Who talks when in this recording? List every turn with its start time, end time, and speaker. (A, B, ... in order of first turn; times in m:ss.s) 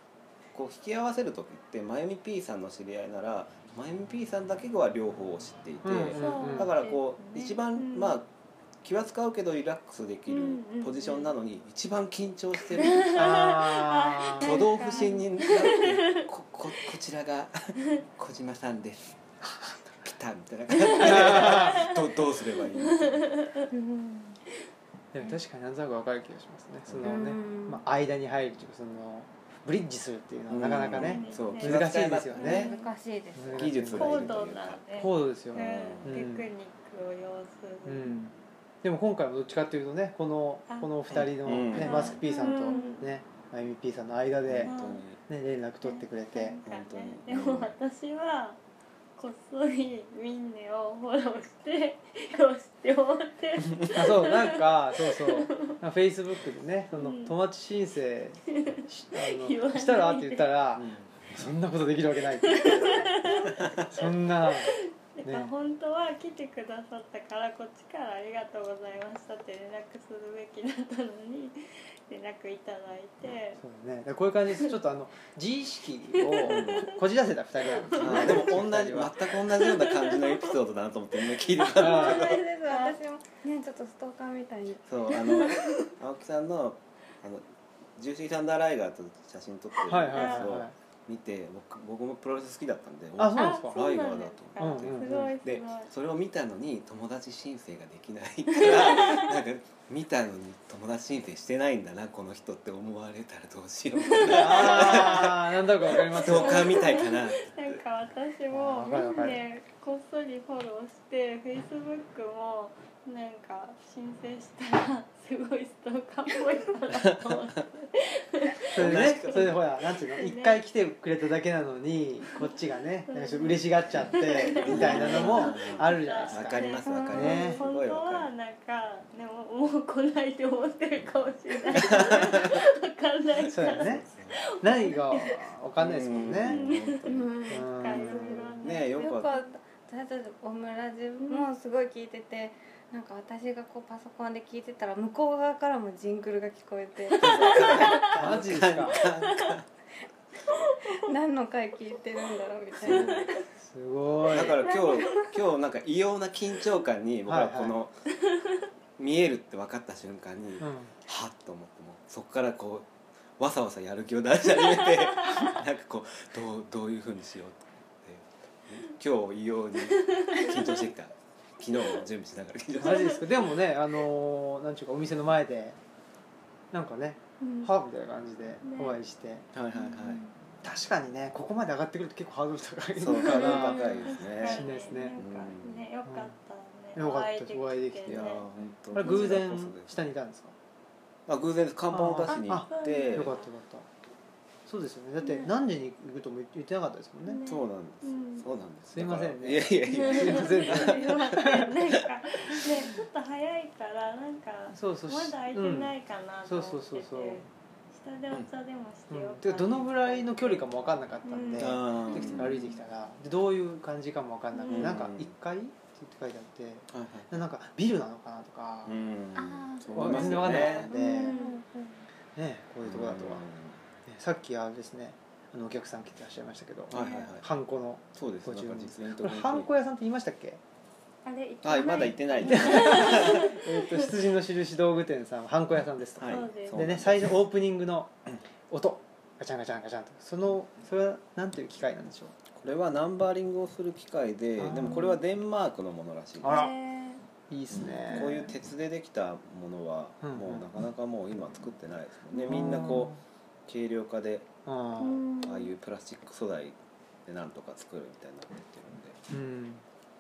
0:00.5-0:08.3 A
0:05.8-0:06.7 B
0:06.1-0:08.2 C
0:08.8-0:13.5 A
0:10.3-0:11.3 C
0:12.8-0:16.3 C
0:13.2-0:14.6 B
0:14.3-0:19.2 A
0:19.5-0:19.8 B
0:20.0-0:23.4 A
0:20.7-0:22.1 C
0:21.0-0:21.8 B
0:22.8-0:23.7 C
0:23.7-0:24.4 D
0:25.1-0:32.7 B
0:26.9-0:27.2 A
0:27.0-0:27.8 D
0:30.5-0:32.7 A
0:30.8-0:32.9 C
0:32.4-0:33.7 D
0:33.4-0:34.4 B
0:33.5-0:34.8 A
0:33.9-0:38.1 C
0:35.0-0:36.5 B
0:35.5-0:36.2 A
0:37.9-0:44.7 B
0:41.1-0:42.2 A
0:41.7-0:43.1 C
0:44.5-0:45.2 A
0:44.6-0:45.0 C
0:45.3-0:46.6 B
0:45.8-0:48.6 C
0:46.7-0:47.8 A
0:49.2-0:55.8 C
0:53.9-1:05.5 B
0:56.9-0:57.3 C
0:58.6-1:00.6 C
1:00.8-1:01.3 A
1:02.4-1:13.6 C
1:03.2-1:03.9 A
1:13.6-1:19.2 B
1:16.1-1:16.9 C
1:16.5-1:16.9 A
1:17.8-1:18.5 C
1:17.9-1:22.4 A
1:19.5-1:20.5 C
1:21.2-1:23.0 C
1:21.8-1:22.2 B
1:21.8-1:25.6 D
1:24.9-1:27.4 A
1:25.4-1:25.8 C
1:28.0-1:47.8 A
1:29.8-1:30.7 B
1:30.1-1:30.5 C
1:33.2-1:33.8 B
1:33.4-1:35.9 C
1:34.6-1:35.3 B
1:38.5-1:39.3 C
1:44.0-1:45.2 C
1:44.2-1:46.9 B
1:45.9-2:00.6 C
1:48.5-1:49.4 B
1:57.0-1:57.4 A
1:58.7-2:07.6 B
1:58.8-1:59.6 A
2:03.1-2:15.4 C
2:04.6-2:08.3 A
2:11.7-2:12.6 A
2:13.5-2:14.4 A
2:13.5-2:14.0 B
2:14.6-2:16.6 B
2:15.8-2:17.3 A
2:16.4-2:19.4 C
2:17.1-2:28.0 D
2:17.5-2:18.4 B
2:18.6-2:19.3 A
2:21.2-2:21.5 C
2:27.1-2:28.2 C
2:27.2-2:29.7 A
2:27.9-2:29.1 B
2:30.5-2:30.8 C
2:30.5-2:33.4 D
2:32.8-2:34.6 B
2:32.9-2:33.2 A
2:32.9-2:33.3 C
2:34.2-2:38.0 A
2:34.8-2:35.3 C
2:37.3-2:37.8 B
2:38.2-2:38.6 C
2:39.0-2:42.9 A
2:40.6-2:41.0 B
2:43.4-2:53.3 A
2:44.6-2:45.6 C
2:50.0-2:50.9 C
2:52.8-2:55.8 B
2:52.8-2:53.2 C
2:56.7-2:59.4 B
2:57.4-2:57.7 C
2:58.6-2:59.0 C
2:59.5-3:00.2 A
2:59.7-3:00.3 D
3:00.6-3:05.2 B
3:03.0-3:05.9 A
3:03.2-3:08.5 C
3:06.0-3:06.3 B
3:07.0-3:08.4 B
3:08.1-3:10.0 A
3:08.9-3:10.6 B
3:09.0-3:09.3 C
3:11.3-3:13.4 A
3:11.9-3:13.9 B
3:12.3-3:13.5 C
3:14.7-3:17.4 B
3:15.2-3:15.5 C
3:17.2-3:18.5 C
3:17.4-3:21.4 A
3:18.9-3:21.7 B
3:19.9-3:30.7 C
3:24.7-3:26.0 B
3:26.5-3:27.4 B
3:29.1-3:39.0 B
3:31.2-3:32.7 C
3:31.6-3:32.7 A
3:34.6-3:35.0 C
3:34.7-3:35.3 A
3:36.9-3:37.3 A
3:38.9-3:40.9 A
3:39.4-3:42.1 D
3:39.9-3:41.4 B
3:40.5-3:41.6 C
3:42.3-3:43.4 B
3:42.8-3:43.8 A
3:44.1-3:50.6 B
3:46.9-3:47.5 A
3:46.9-3:47.3 C
3:48.2-3:49.7 A
3:51.2-3:54.1 C
3:51.6-3:53.5 A
3:52.4-3:58.1 B
3:56.2-3:57.4 A
3:56.2-3:56.8 C
3:58.7-4:02.4 B
4:02.6-4:06.7 A
4:04.6-4:05.2 B
4:06.4-4:06.7 B
4:06.4-4:07.2 C
4:07.5-4:08.5 B
4:07.7-4:14.5 A
4:10.2-4:10.7 B
4:12.3-4:13.2 B
4:14.7-4:15.2 B
4:15.0-4:15.7 C
4:15.4-4:19.2 A
4:19.3-4:19.8 B